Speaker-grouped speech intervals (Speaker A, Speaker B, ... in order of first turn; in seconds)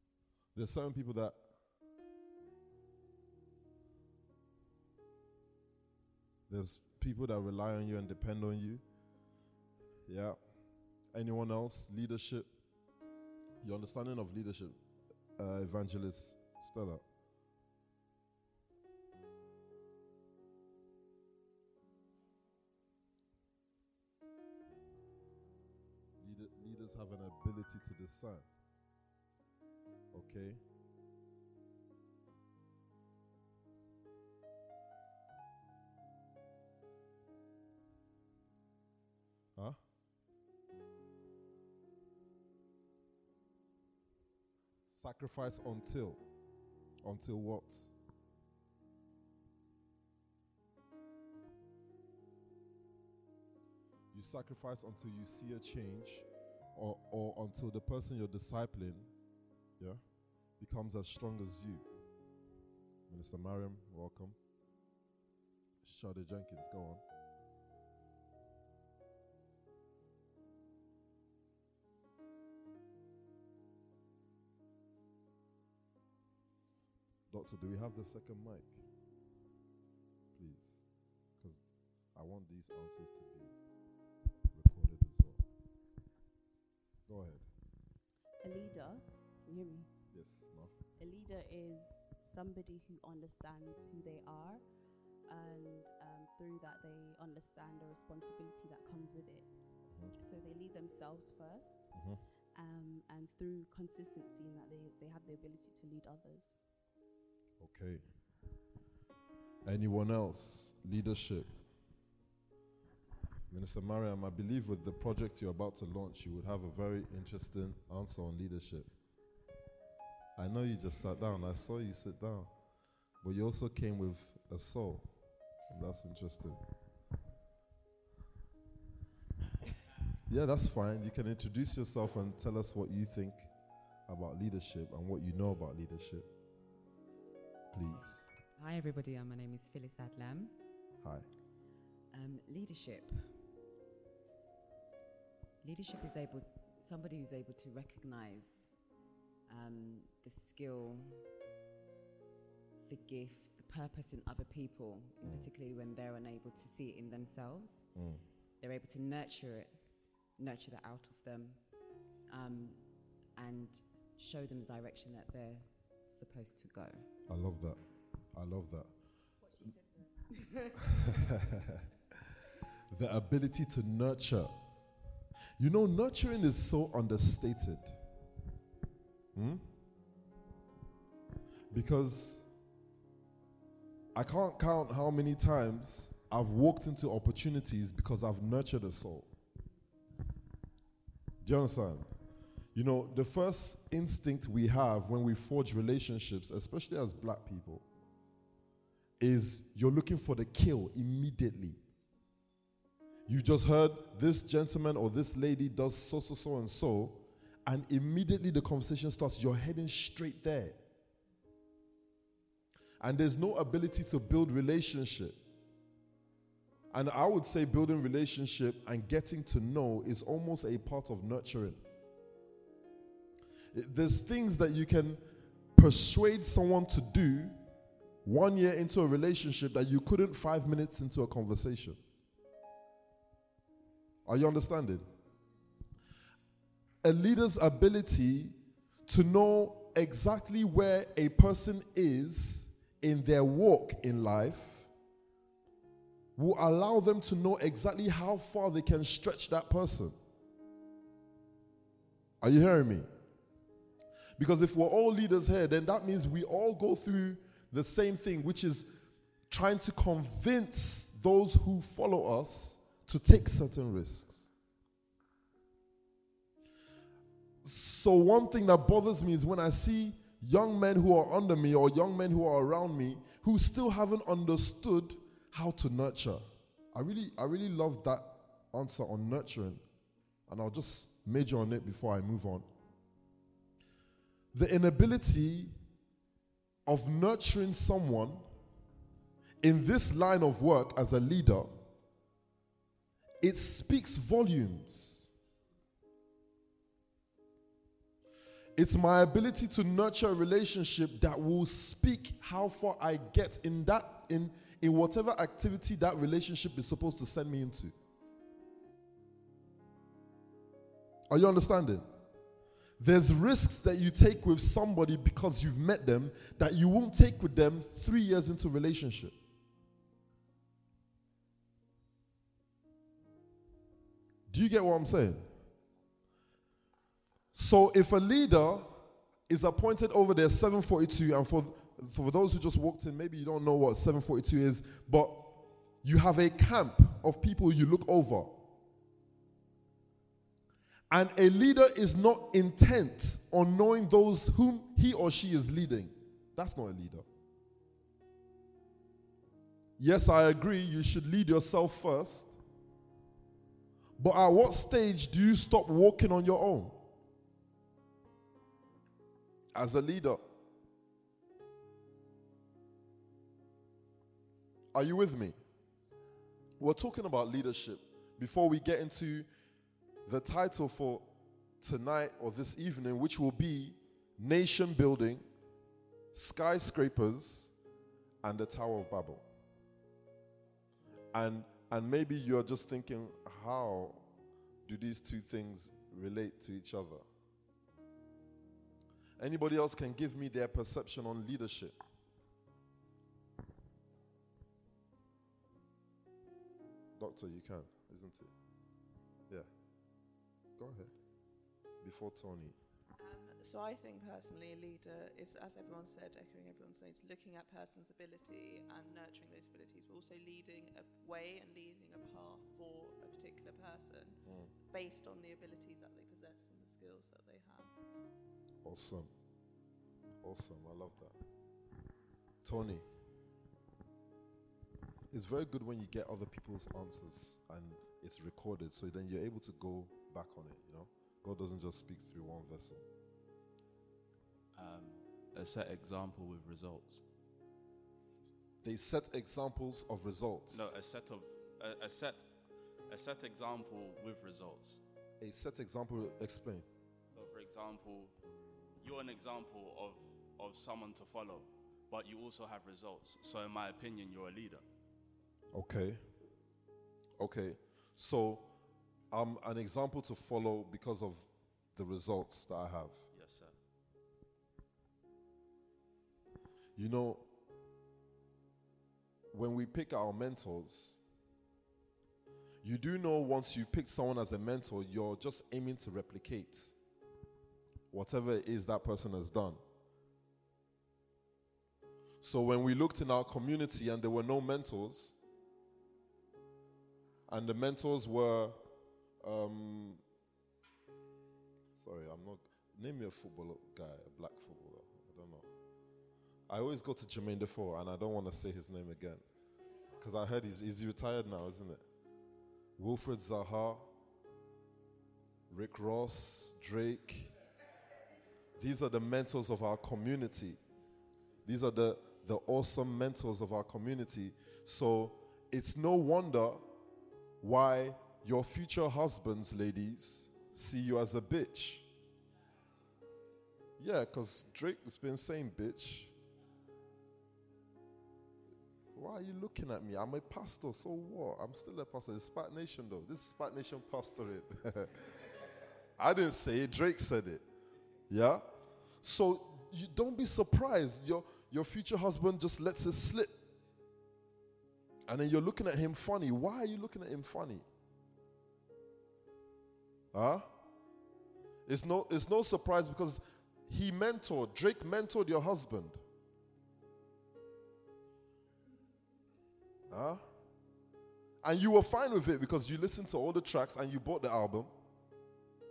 Speaker A: 0.5-1.4, 6.5-8.8, 10.1-10.4, 11.1-12.5, 13.6-14.8, 15.4-17.0, 26.2-28.5, 30.1-30.6, 44.9-46.2, 47.0-47.9, 54.1-59.1, 60.6-61.8, 63.1-64.4, 65.8-67.0, 77.3-78.8, 80.3-80.8, 82.1-83.5, 84.5-85.5, 87.1-87.5, 90.1-90.7, 99.9-100.2, 101.9-102.2, 107.6-108.0, 109.6-111.5, 113.5-118.9, 120.4-122.5, 123.2-125.1, 125.7-126.6, 130.3-133.5, 134.1-136.3, 137.7-138.3, 141.0-141.2, 157.9-158.2, 167.3-167.8, 168.3-168.9, 172.9-174.5, 175.6-178.0, 179.3-179.6, 181.7-182.5, 184.2-189.3, 191.4-192.1, 192.8-197.8, 199.2-201.8, 203.3-210.8, 213.0-215.4, 216.9-221.8, 223.7-225.2, 225.8-227.6, 228.2-232.0, 234.2-235.0, 237.0-238.6, 239.1-244.9, 246.4-250.2, 252.4-253.1, 254.4-258.9, 259.5-264.5, 267.6-279.8, 280.5-282.7, 284.5-285.7, 286.9-288.4, 289.6-291.8, 293.4-295.3, 298.8-307.9, 311.3-312.0, 313.0-319.3, 324.5-325.5, 327.5-329.0, 329.5-338.6, 341.1-347.2, 350.0-352.6, 354.2-357.0, 359.7-360.4, 364.9-365.6, 366.8-369.5, 370.2-371.2, 371.8-375.4, 376.3-377.7, 378.4-379.4, 381.3-384.2, 384.9-387.2, 389.4-391.9, 397.2-398.5, 400.8-401.1, 402.0-402.8, 418.8-419.3, 420.4-421.3, 422.6-423.1, 425.3-433.0, 438.8-440.9, 445.4-446.9, 455.7-456.2, 457.4-458.7, 459.3-463.2, 466.9-467.4, 469.5-471.2, 472.8-476.9, 478.1-479.8, 482.4-485.4, 487.5-488.8, 489.4-490.2, 491.9-495.6, 496.7-499.4, 500.2-502.0, 503.0-504.0, 505.7-507.5, 508.8-510.8, 511.6-516.8, 517.6-522.0, 524.0-526.3, 529.1-535.2, 536.2-537.6, 538.3-538.6, 539.2-543.5, 545.3-547.9, 550.3-550.7, 551.9-556.2, 560.1-560.4, 561.6-564.9
Speaker B: 88.4-90.0, 91.0-94.7, 95.3-99.5, 100.1-106.6
Speaker C: 138.6-140.6, 142.1-143.4, 145.6-148.8, 149.5-151.3, 152.8-157.9, 158.6-167.1
Speaker D: 403.2-417.9
Speaker E: 434.7-437.2, 440.7-442.5, 443.1-445.0, 447.3-448.3, 449.0-454.8, 463.3-463.7